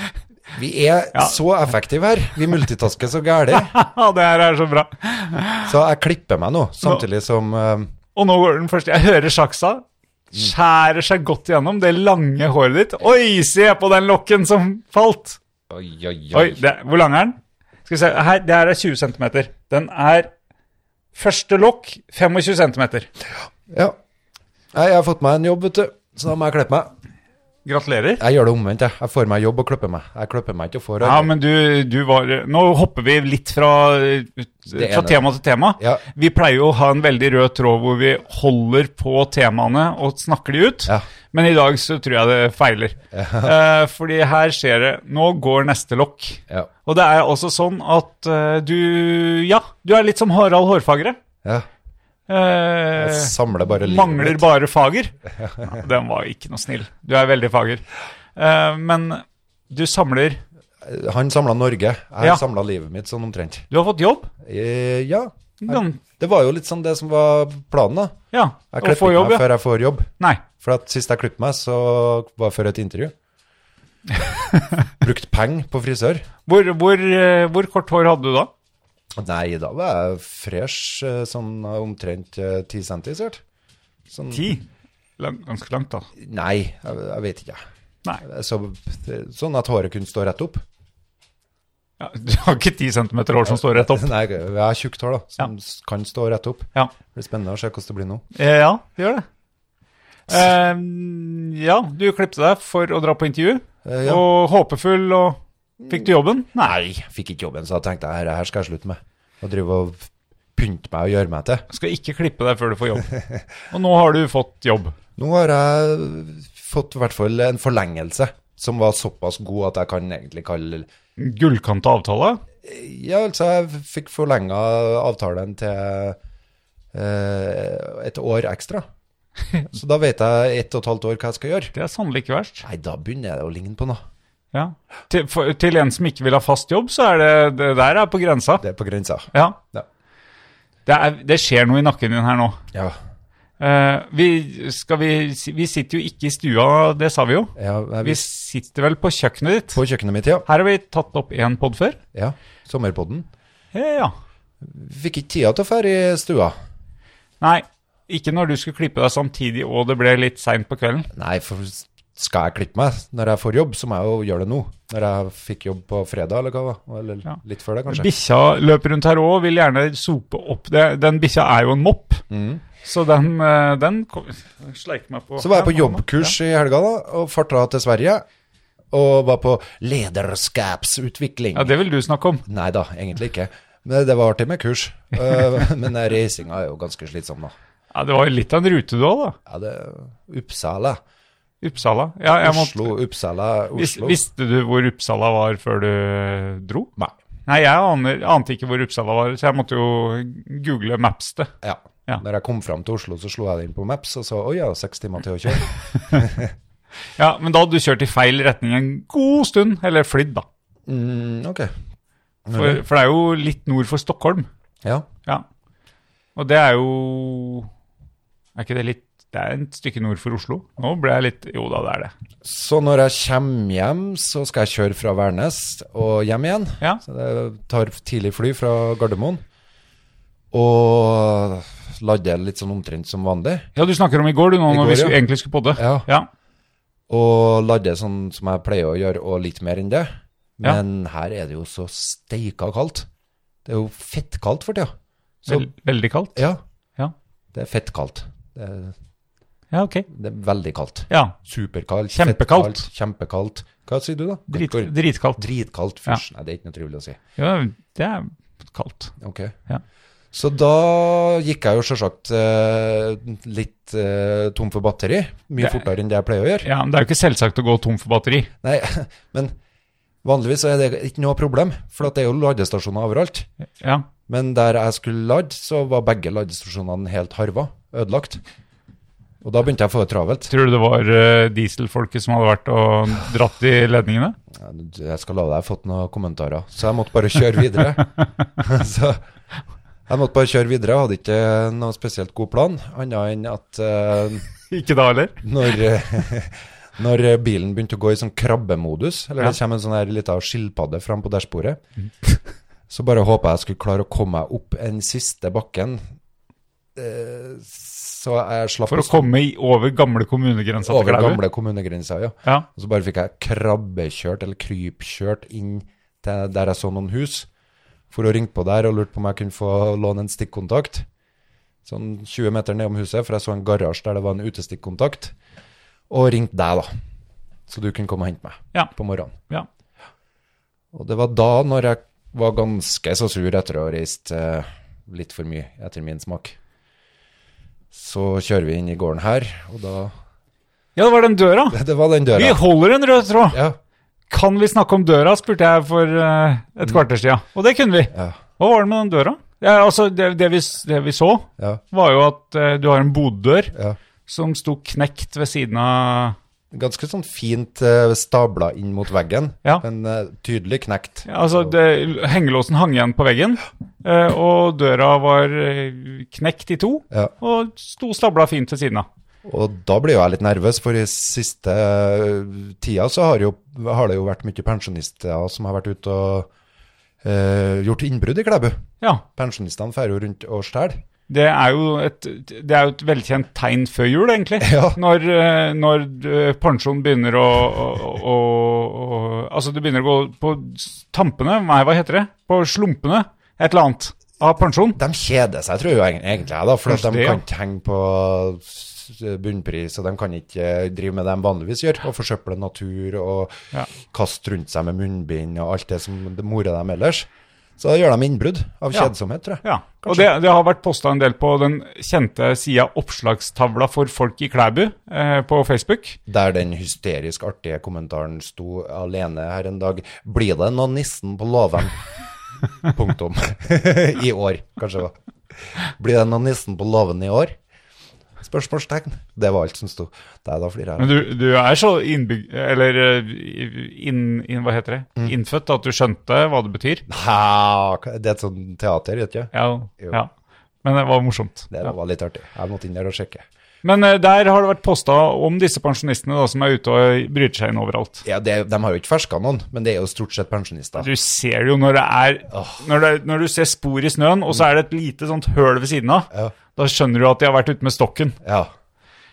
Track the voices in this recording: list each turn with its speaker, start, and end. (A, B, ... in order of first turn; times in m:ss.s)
0:00.5-0:03.7 A
0:03.5-0:05.7 B
0:05.6-0:07.9 A
0:08.1-0:15.4 B
0:15.7-0:16.6 A
0:16.3-0:20.3 B
0:21.1-0:23.1 B
0:23.7-0:24.0 A
0:24.7-0:26.9 A
0:27.6-0:28.2 B
0:28.2-0:31.3 A
0:31.0-0:51.2 B
0:34.7-0:35.2 A
0:35.8-0:36.0 A
0:43.1-0:43.5 A
0:52.3-1:00.4 B
0:52.9-0:54.5 A
0:55.4-0:55.8 A
1:00.8-1:03.7 A
1:03.7-1:04.3 B
1:04.4-1:08.2 A
1:05.6-1:06.0 B
1:08.3-1:09.5 B
1:08.7-1:13.1 A
1:14.2-1:14.8 B
1:15.0-1:16.3 A
1:16.4-1:18.5 B
1:19.2-1:23.4 A
1:24.1-1:24.5 A
1:24.3-1:24.6 B
1:25.2-1:26.1 B
1:26.2-1:27.6 A
1:28.2-1:30.6 A
1:32.0-1:34.1 B
1:33.4-1:38.2 A
1:38.3-1:39.2 B
1:40.3-1:46.8 B
1:43.8-1:44.2 A
1:45.8-1:51.6 A
1:51.7-1:53.1 B
1:53.1-1:53.4 A
1:53.7-1:54.9 B
1:55.2-2:00.9 A
2:01.2-2:02.4 B
2:02.6-2:06.2 A
2:06.9-2:08.8 A
2:09.6-2:11.7 A
2:11.7-2:12.6 B
2:12.6-2:14.0 A
2:14.5-2:18.6 B
2:18.6-2:19.8 A
2:19.3-2:19.6 B
2:20.8-2:22.6 B
2:23.6-2:29.8 B
2:27.6-2:28.2 A
2:29.7-2:30.4 A
2:30.4-2:32.0 B
2:32.1-2:33.3 A
2:33.7-2:34.1 B
2:34.6-2:36.5 A
2:37.4-2:41.1 B
2:41.1-2:48.1 A
2:47.3-2:52.2 B
2:52.3-2:52.6 A
2:52.8-2:56.3 B
2:55.4-2:58.2 A
2:58.9-3:01.7 A
3:01.5-3:02.4 B
3:02.4-3:07.5 A
3:07.9-3:09.4 B
3:09.5-3:11.0 A
3:11.6-3:12.9 B
3:12.3-3:14.2 A
3:13.7-3:16.9 B
3:17.5-3:21.5 B
3:21.6-3:26.5 A
3:27.2-3:30.4 B
3:30.9-3:31.7 A
3:32.4-3:32.8 A
3:32.5-3:34.5 B
3:36.4-3:37.7 B
3:38.6-3:42.1 B
3:42.4-3:49.4 A
3:50.5-3:53.7 A
3:53.7-3:56.3 B
3:54.7-3:55.2 A
3:55.8-3:56.1 A
3:57.1-4:03.1 A
4:03.6-4:04.9 A
4:05.4-4:06.4 B
4:07.5-4:08.9 A
4:09.7-4:10.1 B
4:10.1-4:17.2 A
4:11.1-4:11.4 B
4:12.1-4:12.9 B
4:14.5-4:15.4 B
4:17.4-4:19.2 B
4:19.2-4:19.5 A
4:20.3-4:26.7 A
4:25.6-4:25.8 B
4:26.6-4:28.5 B
4:28.6-4:29.5 A
4:30.2-4:33.5 A
4:33.8-4:34.1 B
4:34.3-4:38.4 A
4:39.4-4:40.5 A
4:40.5-4:44.4 B
4:44.5-4:49.2 A
4:50.1-4:54.5 A
4:54.7-4:55.4 B
4:55.4-5:01.8 A
5:02.9-5:06.0 A
5:07.0-5:09.3 A
5:08.9-5:11.4 B
5:10.8-5:17.5 A
5:18.1-5:21.1 A
5:21.8-5:25.3 A
5:26.1-5:26.9 A
5:27.7-5:29.4 A
5:30.9-5:36.6 A
5:37.9-5:40.1 A
5:41.0-5:41.8 B
5:41.7-5:42.6 A
5:42.3-5:43.6 B
5:43.5-5:43.8 A
5:44.3-5:53.7 B
5:48.1-5:48.4 A
5:54.3-5:56.4 B
5:56.7-6:01.7 A
6:01.3-6:09.1 B
6:09.4-6:16.5 A
6:17.2-6:21.0 A
6:21.3-6:35.0 B
6:24.6-6:25.0 A
6:35.0-6:50.3 A
6:36.9-6:37.4 B
6:49.6-6:56.2 B
6:56.3-7:02.0 A
7:02.8-7:07.6 A
7:08.4-7:11.3 A
7:11.0-7:17.0 B
7:17.1-7:20.2 A
7:19.5-7:20.3 B
7:20.8-7:21.9 B
7:21.7-7:23.4 A
7:23.8-7:28.2 B
7:28.2-7:31.1 A
7:31.0-7:38.4 B
7:32.5-7:32.8 A
7:38.4-7:38.7 A